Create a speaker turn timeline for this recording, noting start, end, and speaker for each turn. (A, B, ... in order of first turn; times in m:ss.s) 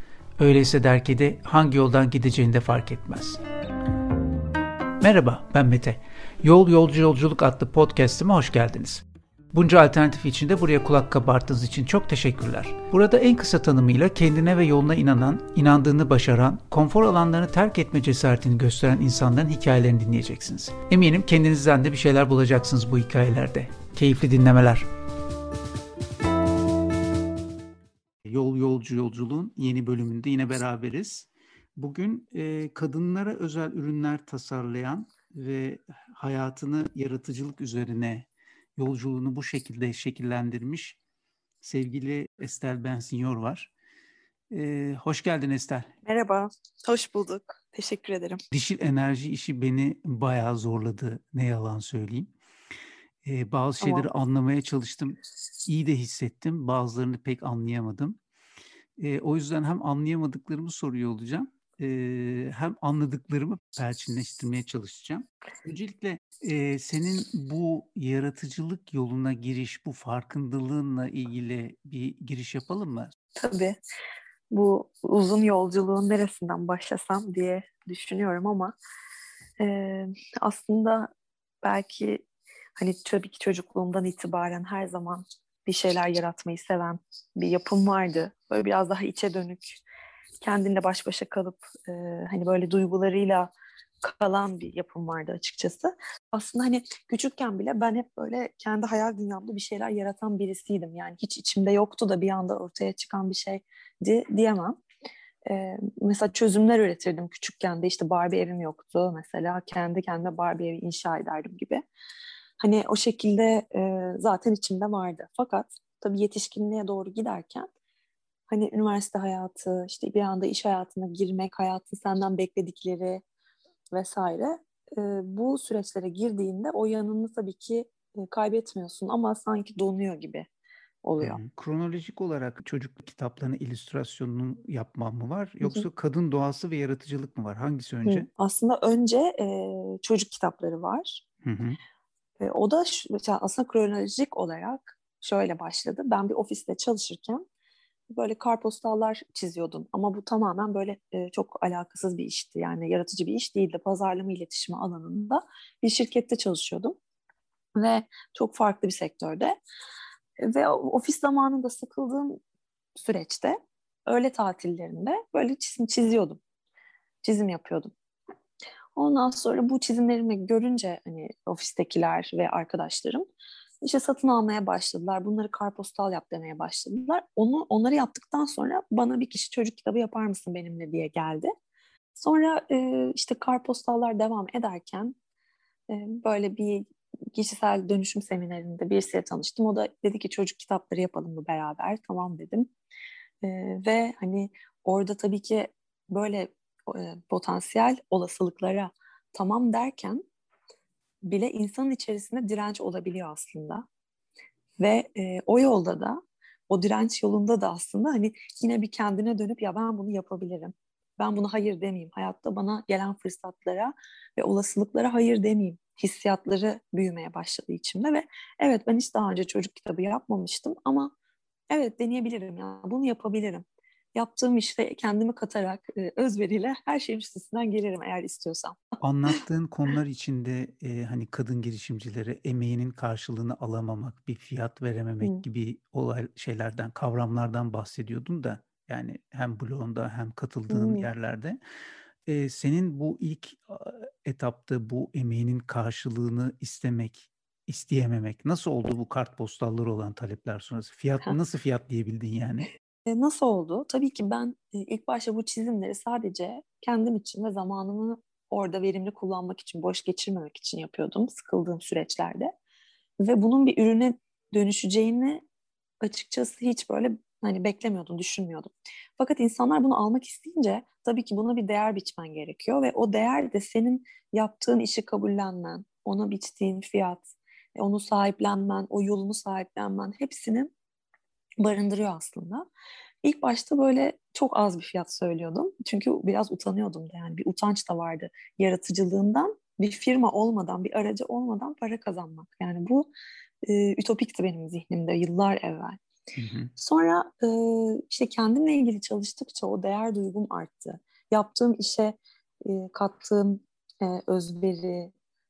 0:00.4-0:03.4 A
0:05.0-0:24.9 A
0:28.2-0:41.0 A
0:41.6-0:43.7 A
0:44.5-0:45.9 A
0:46.0-0:48.4 B
0:48.5-0:52.3 A
0:53.2-0:58.2 A
0:53.8-0:54.1 B
0:59.0-1:13.1 A
1:13.4-1:13.8 B
1:14.5-1:18.7 B
1:19.6-1:21.1 B
1:21.6-1:22.2 B
1:22.8-1:29.8 B
1:30.4-1:33.5 B
1:34.0-1:44.8 B
1:45.5-1:51.8 B
1:52.6-1:57.7 B
1:58.5-2:03.2 B
2:03.9-2:10.5 B
2:11.0-2:11.4 B
2:11.2-2:18.3 A
2:18.1-2:21.2 B
2:21.4-2:21.8 A
2:22.4-2:27.4 B
2:28.1-2:37.0 B
2:37.8-2:39.6 B
2:40.4-2:42.4 B
2:43.0-2:46.4 B
2:47.2-2:47.9 B
2:49.0-2:53.3 B
2:53.8-3:01.5 B
3:02.2-3:05.2 B
3:05.9-3:12.7 B
3:13.4-3:20.2 B
3:21.2-3:23.8 B
3:24.8-3:41.1 B
3:41.7-3:48.8 B
3:49.0-4:01.6 A
4:00.7-4:01.1 B
4:02.3-4:12.7 A
4:13.1-4:22.5 B
4:23.2-4:25.4 B
4:26.0-4:40.7 B
4:41.6-4:42.7 B
4:43.2-4:53.1 B
4:53.6-4:56.0 B
4:56.4-4:56.7 A
4:56.8-5:05.1 B